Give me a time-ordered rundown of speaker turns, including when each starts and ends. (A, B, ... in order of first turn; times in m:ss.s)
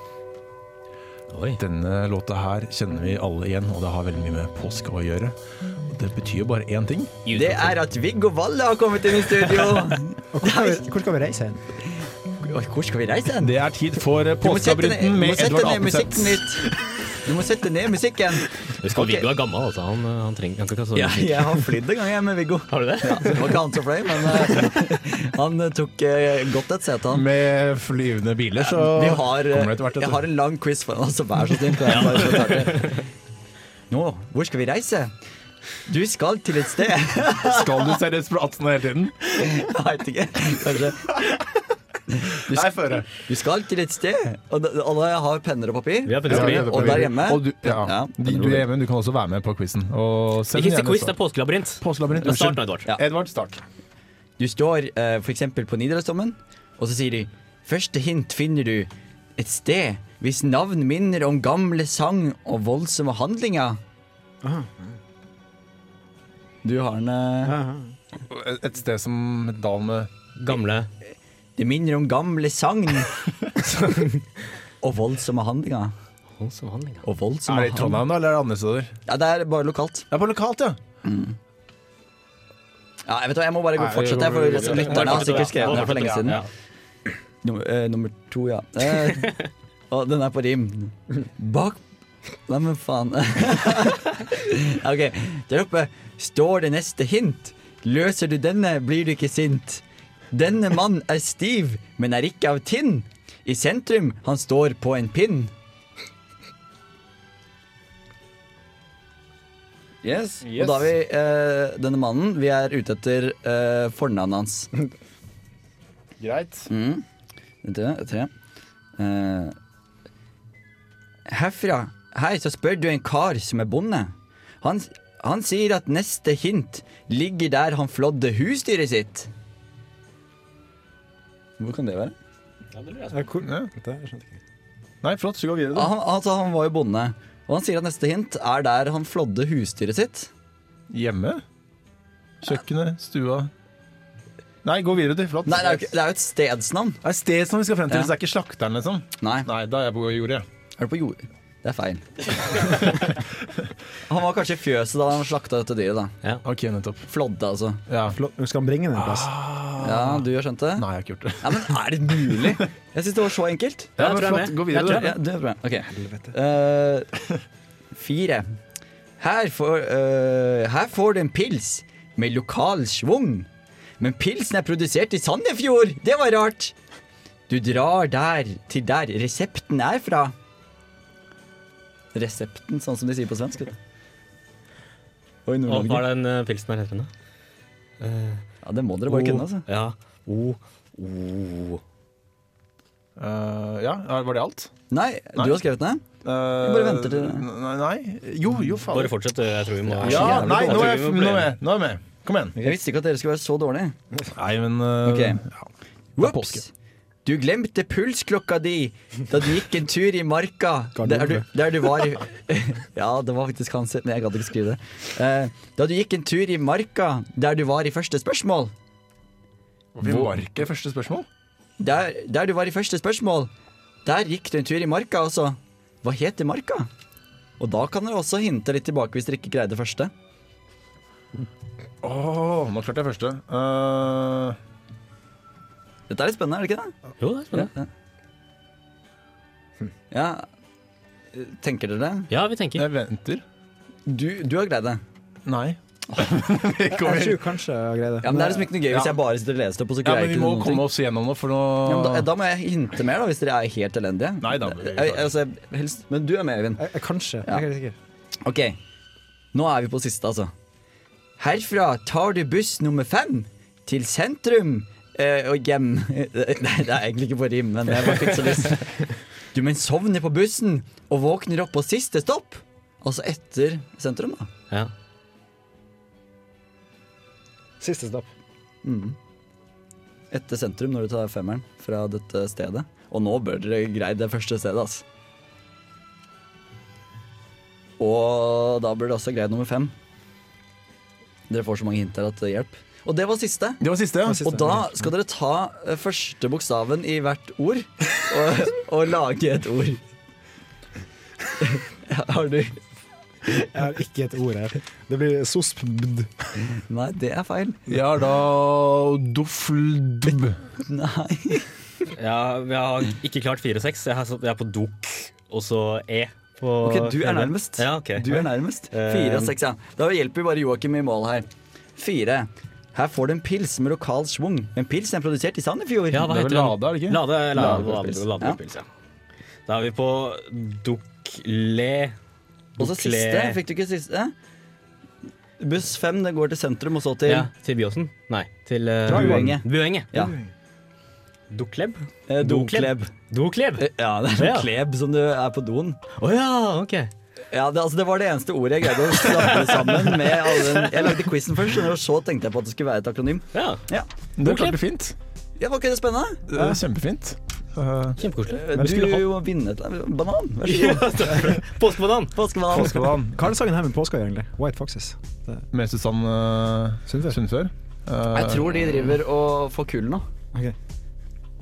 0:01.3-0:01.6 A
0:01.6-0:05.3 B
0:05.9-0:07.2 B
0:07.2-0:07.7 A
0:07.3-0:10.9 C
0:10.3-0:11.6 D
0:12.4-0:13.6 C
0:13.4-0:16.7 B
0:14.4-0:19.3 C
0:18.8-0:21.7 A
0:20.9-0:27.2 C
0:22.7-0:23.4 A
0:27.1-0:30.2 B
0:28.6-0:33.0 C
0:31.8-0:33.0 A
0:33.9-0:35.1 C
0:35.9-0:37.8 C
0:37.4-0:39.7 B
0:39.4-0:41.5 C
0:40.6-0:41.2 B
0:42.1-0:48.6 C
0:42.4-0:43.1 B
0:46.0-0:47.1 A
0:46.2-0:51.2 B
0:50.5-0:52.9 A
0:51.8-0:53.6 B
0:54.4-1:03.8 C
1:04.4-1:04.9 D
1:06.6-1:07.6 C
1:07.4-1:07.9 D
1:08.2-1:10.1 B
1:10.4-1:10.9 A
1:11.6-1:13.2 C
1:14.8-1:15.9 C
1:16.4-1:17.0 A
1:17.0-1:18.0 C
1:17.4-1:18.9 B
1:19.1-1:20.1 C
1:20.1-1:20.8 B
1:21.0-1:21.4 C
1:23.0-1:26.4 C
1:23.7-1:26.4 B
1:24.4-1:26.5 A
1:27.4-1:31.8 C
1:32.5-1:45.5 C
1:50.0-1:54.7 C
1:50.4-1:50.9 B
1:56.2-1:56.7 B
1:56.7-1:57.0 C
1:57.6-1:58.3 C
1:59.0-1:59.5 C
2:01.3-2:09.3 C
2:11.6-2:12.1 C
2:12.7-2:13.2 A
2:13.1-2:14.4 D
2:13.4-2:13.7 B
2:15.0-2:15.9 B
2:15.7-2:20.3 C
2:20.9-2:21.4 B
2:22.4-2:23.5 B
2:24.6-2:25.9 B
2:25.4-2:27.0 C
2:27.0-2:30.4 B
2:29.2-2:29.5 C
2:30.8-2:33.1 C
2:34.1-2:36.2 C
2:36.4-2:37.1 B
2:37.1-2:37.8 C
2:37.9-2:38.2 B
2:38.0-2:39.3 D
2:38.9-2:42.6 B
2:39.8-2:40.9 C
2:41.4-2:43.9 C
2:44.0-2:45.1 A
2:44.0-2:45.2 B
2:44.8-2:47.3 C
2:45.9-2:46.3 D
2:47.9-2:48.5 C
2:49.2-2:53.5 C
2:54.0-2:56.7 C
2:57.5-3:00.3 C
3:02.1-3:03.7 C
3:05.4-3:06.1 C
3:05.6-3:07.1 A
3:08.0-3:08.4 A
3:08.6-3:09.6 C
3:09.1-3:09.4 B
3:09.7-3:11.8 A
3:13.2-3:14.7 B
3:14.9-3:16.0 C
3:16.2-3:19.2 B
3:16.6-3:17.4 C
3:18.9-3:21.5 A
3:20.0-3:22.6 B
3:20.0-3:20.9 C
3:22.6-3:24.0 C
3:24.3-3:25.7 B
3:25.0-3:25.4 C
3:26.2-3:26.7 C
3:26.2-3:26.6 B
3:27.2-3:38.7 C
3:31.0-3:31.5 D
3:39.9-3:41.3 B
3:41.8-3:43.5 C
3:44.0-3:46.9 C
3:47.6-3:50.1 C
3:52.0-3:54.6 B
3:56.1-3:56.9 C
3:57.2-3:57.7 A
3:57.5-3:57.9 C
4:00.1-4:00.4 C
4:01.3-4:02.3 C
4:02.3-4:02.8 A
4:02.7-4:03.4 B
4:04.0-4:05.0 C
4:05.4-4:07.5 B
4:06.9-4:08.7 D
4:08.2-4:10.9 C
4:08.9-4:09.2 B
4:10.0-4:12.3 B
4:11.8-4:16.8 C
4:14.4-4:15.3 B
4:16.8-4:18.0 D
4:18.4-4:18.8 C
4:19.5-4:20.5 C
4:21.4-4:34.5 C
4:37.8-4:38.3 D
4:38.8-4:39.2 C
4:40.3-4:45.0 C
4:48.0-4:49.9 C
4:51.5-4:53.8 C
4:53.8-4:54.6 B
4:54.2-4:54.7 D
4:54.4-5:00.0 C
5:01.6-5:02.8 C
5:03.5-5:06.5 D
5:06.7-5:07.9 C
5:07.9-5:10.6 B
5:10.3-5:11.7 C
5:12.2-5:19.5 A
5:16.8-5:26.3 C
5:26.1-5:28.9 A
5:26.1-5:28.0 B
5:27.6-5:28.6 C
5:29.7-5:32.2 A
5:32.8-5:33.6 A
5:32.8-5:34.3 C
5:35.6-5:37.5 C
5:37.2-5:40.1 A
5:39.1-5:39.6 D
5:39.1-5:40.3 C
5:40.1-5:40.5 D
5:41.5-5:44.7 A
5:42.3-5:43.1 C
5:43.8-5:46.0 C
5:46.2-5:47.1 A
5:47.5-5:54.1 C
5:49.1-5:51.1 A
5:53.5-5:53.8 A
5:54.4-5:55.1 B
5:54.4-5:54.8 A
5:55.6-5:56.5 C
5:56.5-5:58.2 B
5:58.2-5:59.2 A
5:58.5-6:01.5 C
5:58.8-5:59.2 D
6:00.6-6:02.3 A
6:02.3-6:03.2 C
6:02.7-6:03.4 B
6:03.3-6:05.6 D
6:05.7-6:09.1 B
6:07.1-6:07.4 D
6:08.3-6:10.2 C